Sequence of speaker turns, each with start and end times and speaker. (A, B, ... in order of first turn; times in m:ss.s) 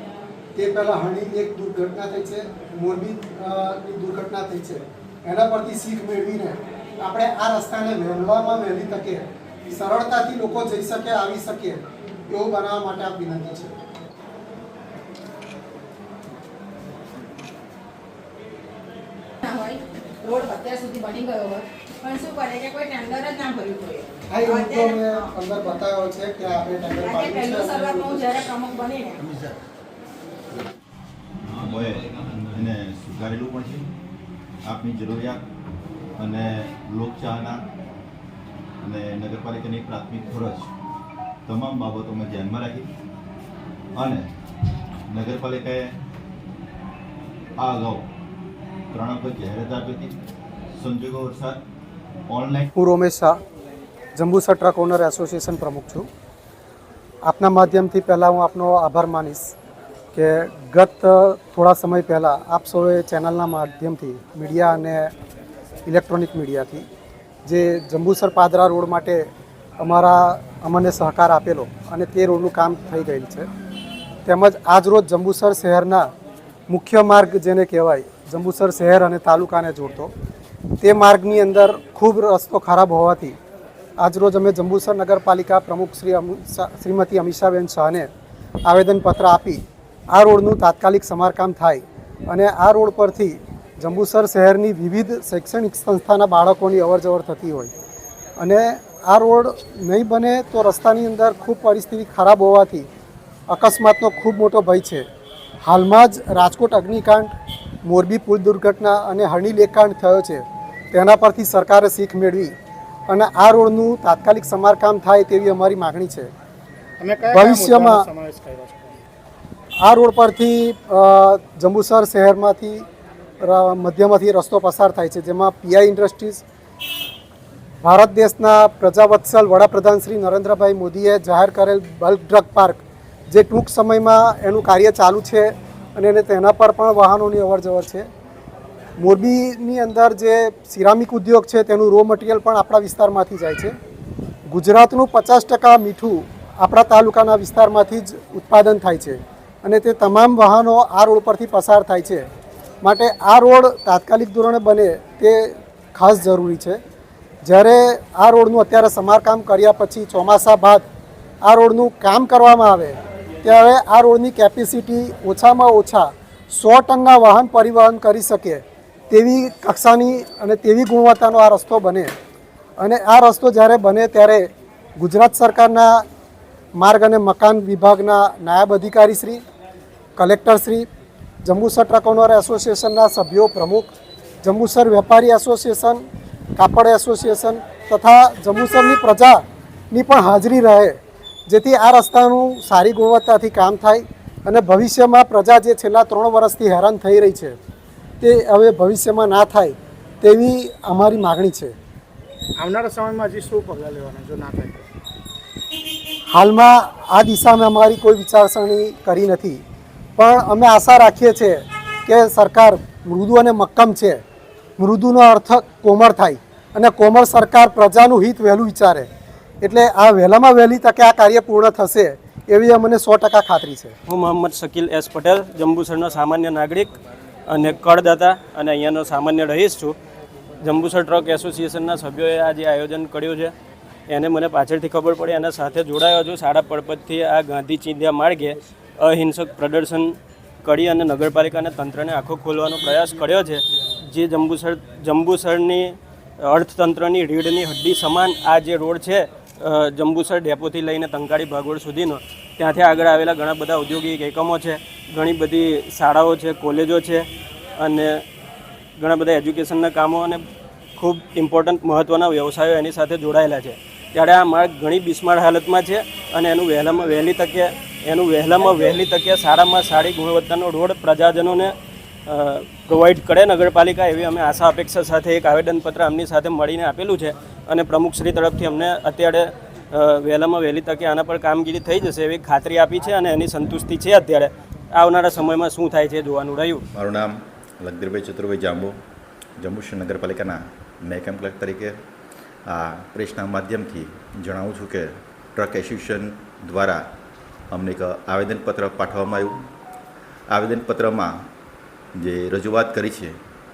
0:00.5-0:13.8 A
0:19.4-0:25.0 B
0:24.3-0:28.3 A
0:27.0-0:29.2 B
0:31.6-0:33.9 C
0:34.6-0:35.4 C
0:36.2-0:37.6 C
0:38.8-0:40.7 C
0:41.4-0:42.9 C
0:43.9-0:44.3 C
0:45.1-0:46.0 C
0:47.6-0:48.1 C
0:48.9-0:50.2 C
0:50.7-0:51.6 C
0:52.3-0:52.7 C
0:52.7-0:53.4 A
0:54.1-0:56.1 A
0:57.2-0:59.5 A
1:00.1-1:05.1 A
1:05.8-1:06.9 A
1:07.4-1:09.3 A
1:09.8-1:13.5 A
1:14.2-1:16.1 A
1:16.7-1:20.1 A
1:20.8-1:23.4 A
1:24.0-1:28.1 A
1:28.6-1:37.7 A
1:38.4-1:42.9 A
1:43.5-1:45.0 A
1:45.6-1:47.3 A
1:47.8-1:52.5 A
1:53.1-1:56.3 A
1:57.0-1:59.0 D
1:57.3-1:58.1 A
1:59.8-2:02.8 A
2:03.4-2:06.4 A
2:07.8-2:18.1 A
2:19.0-2:23.7 A
2:24.5-2:32.3 A
2:32.8-2:36.8 A
2:37.4-2:40.8 A
2:41.4-2:52.1 A
2:52.8-2:54.5 A
2:55.0-2:56.0 A
2:56.8-2:59.4 A
3:00.2-3:00.9 A
3:01.4-3:06.0 A
3:06.6-3:17.6 A
3:18.2-3:21.7 A
3:22.6-3:24.9 D
3:26.3-3:29.6 A
3:30.2-3:34.2 A
3:34.8-3:39.1 A
3:39.6-3:44.0 A
3:44.1-3:46.9 E
3:47.5-3:50.0 E
3:50.6-3:53.5 E
3:54.1-4:17.2 E
4:17.8-4:18.2 E
4:19.0-4:20.4 E
4:21.0-4:31.7 E
4:32.3-4:46.8 E
4:46.9-4:49.0 C
4:49.6-4:52.0 C
4:52.6-4:57.0 C
4:57.7-4:59.6 C
5:00.5-5:01.3 C
5:02.1-5:03.4 C